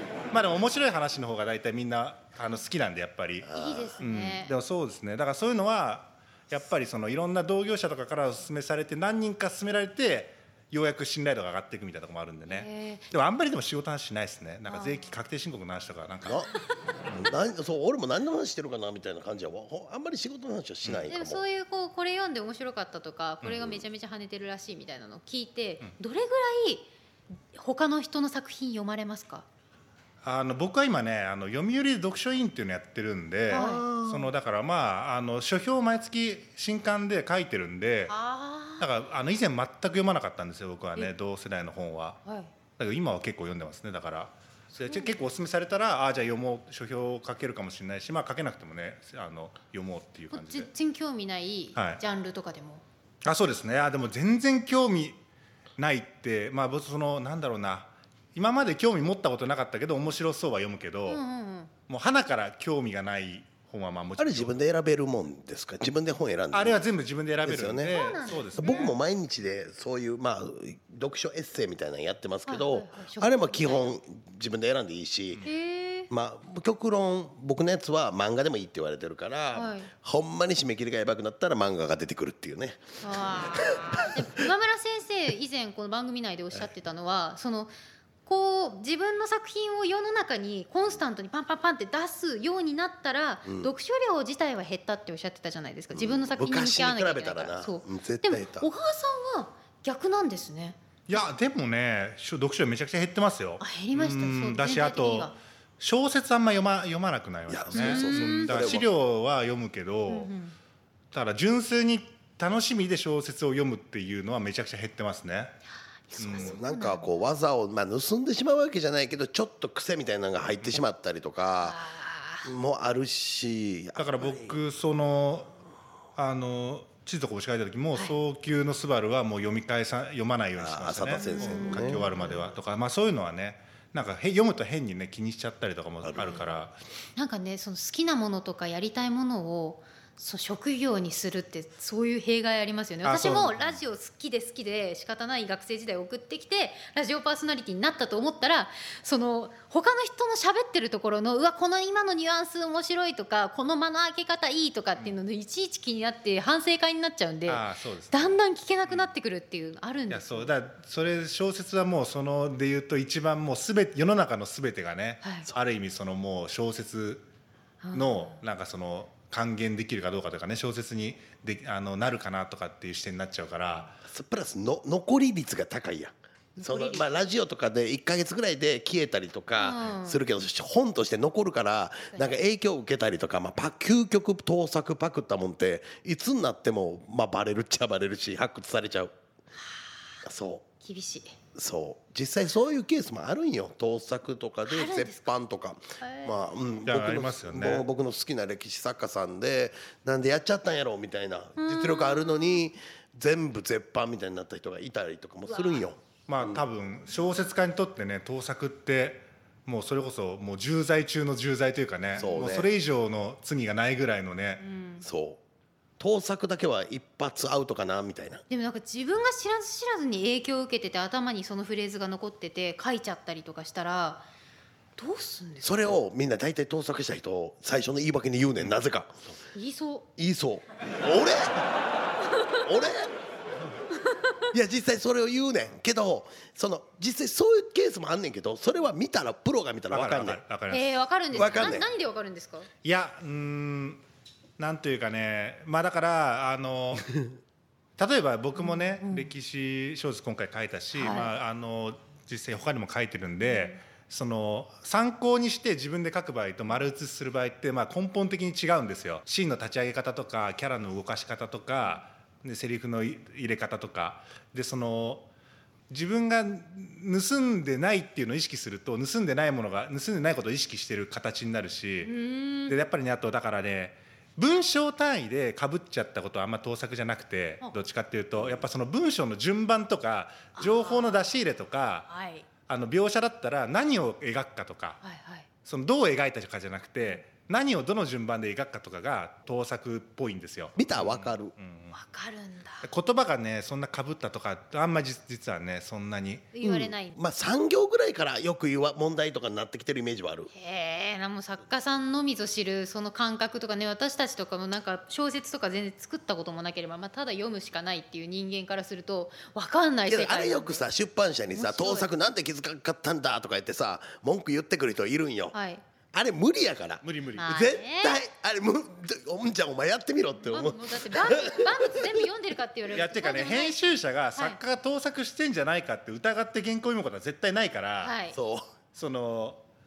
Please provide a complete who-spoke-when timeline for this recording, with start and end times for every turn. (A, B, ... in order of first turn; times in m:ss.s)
0:00.3-0:16.5 A
0:03.4-0:03.9 B
0:03.5-0:04.5 C
0:12.5-0:13.1 C
0:14.6-0:15.1 C
0:17.1-0:21.4 B
0:21.1-0:26.9 C
0:23.4-0:23.7 A
0:27.5-0:29.4 C
0:30.2-0:38.1 A
0:33.5-0:33.9 C
0:33.5-0:34.3 B
0:38.1-0:38.9 C
0:38.8-0:42.2 A
0:42.2-0:42.5 C
0:42.8-0:50.7 A
0:44.8-0:45.2 C
0:50.3-0:52.8 C
0:51.7-0:52.0 A
0:53.2-0:55.2 A
0:55.8-1:01.2 A
1:01.1-1:01.7 C
1:01.9-1:04.6 A
1:04.2-1:06.8 B
1:06.5-1:08.9 A
1:07.4-1:15.4 B
1:07.9-1:08.9 C
1:12.5-1:13.9 C
1:15.4-1:16.1 C
1:16.1-1:22.8 B
1:19.5-1:19.9 C
1:23.0-1:27.7 C
1:23.4-1:24.2 B
1:28.2-1:40.8 C
1:33.4-1:33.7 B
1:35.9-1:38.7 B
1:41.1-1:50.3 A
1:43.6-1:45.4 C
1:47.5-1:48.9 B
1:47.7-1:48.8 C
1:50.1-1:50.6 C
1:51.1-1:55.6 A
1:56.1-1:57.0 C
1:56.2-2:01.8 B
1:56.2-1:56.6 A
2:01.5-2:02.5 C
2:02.4-2:04.6 B
2:04.0-2:05.5 A
2:06.2-2:16.8 A
2:10.6-2:12.1 B
2:11.2-2:12.4 C
2:16.0-2:16.5 B
2:17.2-2:40.5 C
2:23.0-2:23.8 A
2:37.4-2:39.1 A
2:40.1-2:47.2 A
2:47.8-2:48.4 C
2:47.9-2:54.0 A
2:54.1-3:09.1 B
2:56.6-2:57.0 C
2:59.6-3:00.2 C
3:09.7-3:10.2 C
3:10.2-3:10.6 B
3:10.8-3:11.3 C
3:11.5-3:26.6 B
3:14.6-3:15.3 C
3:16.0-3:16.4 C
3:16.8-3:17.8 A
3:21.6-3:22.6 C
3:25.5-3:25.8 C
3:26.3-3:34.6 A
3:32.2-3:32.7 B
3:34.6-3:35.0 C
3:35.0-3:35.4 B
3:36.0-3:38.4 B
3:38.5-3:44.2 C
3:45.0-3:45.9 C
3:45.6-3:49.2 B
3:49.5-3:50.1 C
3:50.2-3:51.6 B
3:52.3-3:52.8 C
3:52.6-3:53.1 B
3:54.0-3:54.4 C
3:54.5-4:00.4 B
3:59.9-4:01.8 A
4:00.7-4:02.7 C
4:01.3-4:01.9 B
4:02.8-4:04.0 A
4:04.6-4:07.1 A
4:08.0-4:25.3 A
4:08.6-4:09.3 C
4:10.9-4:11.3 C
4:13.4-4:13.8 C
4:25.9-4:32.1 A
4:32.0-4:32.8 C
4:32.7-4:42.1 A
4:40.6-4:41.2 C
4:42.1-4:42.5 C
4:42.7-4:45.0 A
4:45.0-4:45.5 C
4:45.6-4:52.0 A
4:50.8-4:51.5 B
4:51.9-4:52.9 C
4:52.8-4:56.5 A
4:56.5-4:57.2 C
4:56.6-5:00.5 B
5:00.5-5:10.8 C
5:10.1-5:15.5 B
5:11.5-5:12.1 C
5:15.5-5:15.8 C
5:16.1-5:22.2 B
5:17.0-5:17.6 A
5:17.4-5:18.2 C
5:20.4-5:24.6 C
5:22.9-5:28.1 A
5:28.0-5:28.4 C
5:28.3-5:28.7 B
5:28.9-5:29.6 A